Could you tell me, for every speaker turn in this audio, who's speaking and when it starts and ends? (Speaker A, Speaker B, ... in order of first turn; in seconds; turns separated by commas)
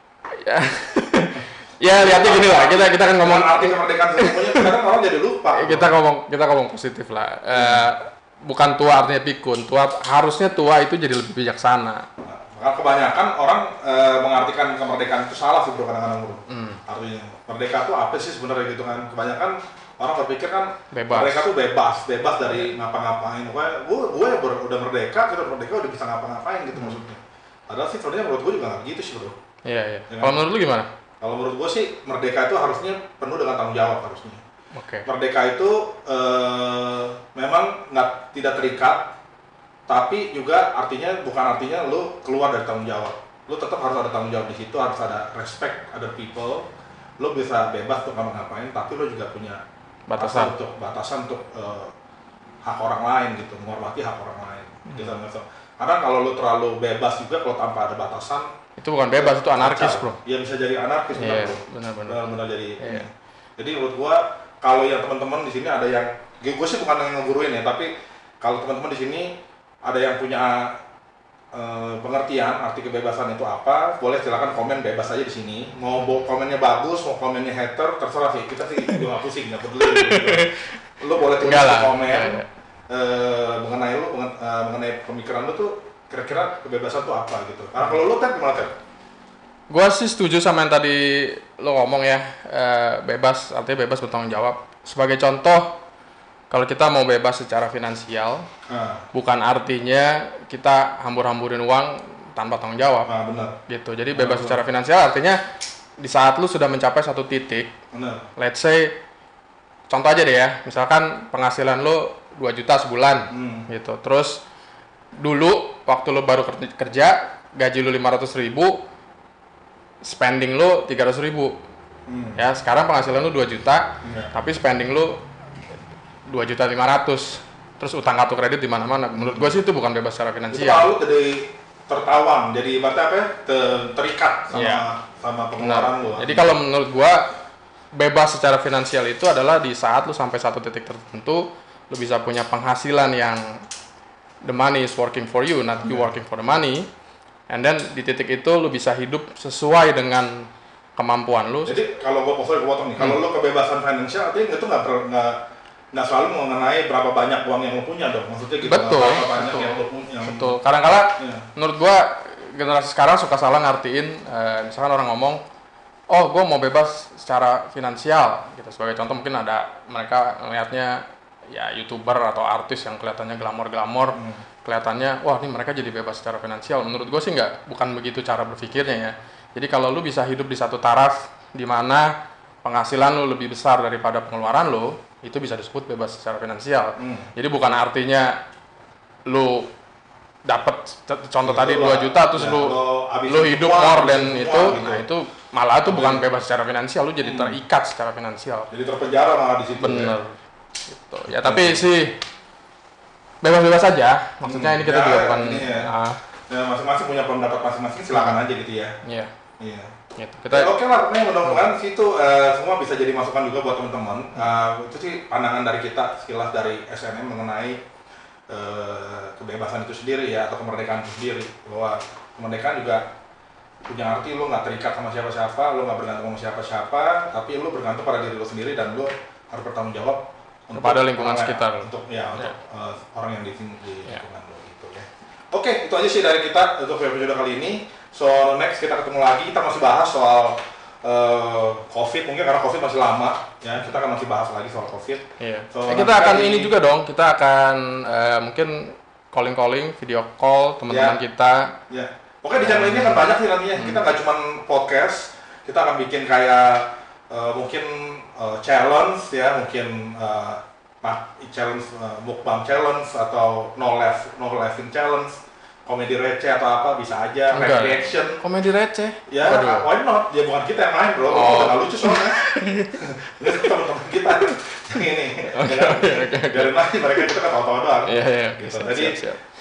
Speaker A: 0.4-4.7, Speaker B: 1.9-5.9, Speaker A: 5.5-12.1, Speaker B: 7.5-7.9, Speaker B: 12.2-29.4, Speaker A: 16.5-16.8, Speaker A: 20.9-21.5, Speaker A: 29.6-30.9, Speaker B: 30.1-30.4, Speaker B: 31.2-34.4, Speaker A: 34.7-35.1, Speaker B: 35.0-39.1, Speaker B: 39.9-49.6, Speaker A: 50.1-50.5, Speaker B: 50.2-51.9, Speaker B: 52.6-58.5, Speaker A: 54.9-55.2, Speaker A: 58.8-60.2, Speaker B: 59.1-70.8, Speaker A: 61.1-63.0, Speaker B: 71.5-88.7, Speaker A: 79.8-80.6, Speaker A: 81.4-82.5, Speaker A: 89.7-95.8, Speaker A: 96.5-98.5, Speaker B: 98.7-99.0, Speaker A: 99.1-103.1, Speaker B: 103.0-103.6, Speaker A: 103.7-105.4, Speaker B: 104.1-104.6, Speaker A: 106.0-107.7, Speaker B: 107.9-108.3, Speaker A: 108.4-109.0, Speaker A: 109.9-114.4, Speaker B: 113.3-113.7, Speaker A: 115.2-118.8, Speaker A: 120.0-121.5, Speaker B: 122.1-122.4, Speaker A: 122.3-125.2, Speaker B: 124.0-124.3, Speaker A: 126.3-130.9, Speaker B: 129.2-129.5, Speaker B: 130.5-136.6, Speaker A: 134.5-134.9, Speaker A: 135.6-137.3, Speaker A: 137.9-143.4, Speaker A: 144.4-146.9, Speaker B: 145.8-146.1, Speaker A: 147.5-151.8, Speaker B: 151.7-155.4, Speaker B: 155.9-160.5, Speaker A: 158.6-165.4, Speaker B: 161.2-161.4, Speaker A: 166.1-182.1, Speaker B: 174.2-174.4, Speaker A: 182.6-188.4, Speaker B: 187.0-187.3, Speaker A: 189.3-189.7, Speaker A: 190.4-198.7, Speaker B: 191.4-195.0, Speaker B: 195.8-196.2, Speaker B: 197.2-197.6, Speaker B: 198.7-200.2, Speaker A: 199.8-200.3, Speaker A: 200.9-202.2, Speaker B: 201.3-201.9, Speaker A: 203.4-206.2, Speaker B: 204.4-205.9, Speaker B: 206.5-208.9, Speaker A: 208.1-208.4, Speaker A: 209.0-209.3, Speaker B: 209.6-209.9, Speaker A: 210.2-210.7, Speaker B: 210.5-217.8, Speaker B: 218.5-223.1, Speaker B: 223.8-246.7, Speaker A: 230.7-232.5, Speaker A: 245.4-251.7, Speaker B: 250.9-251.2, Speaker B: 251.9-268.4, Speaker A: 252.6-254.0, Speaker A: 267.5-269.9, Speaker B: 269.3-272.4, Speaker A: 271.3-273.7, Speaker B: 273.0-279.2, Speaker A: 275.4-277.4, Speaker A: 278.1-279.4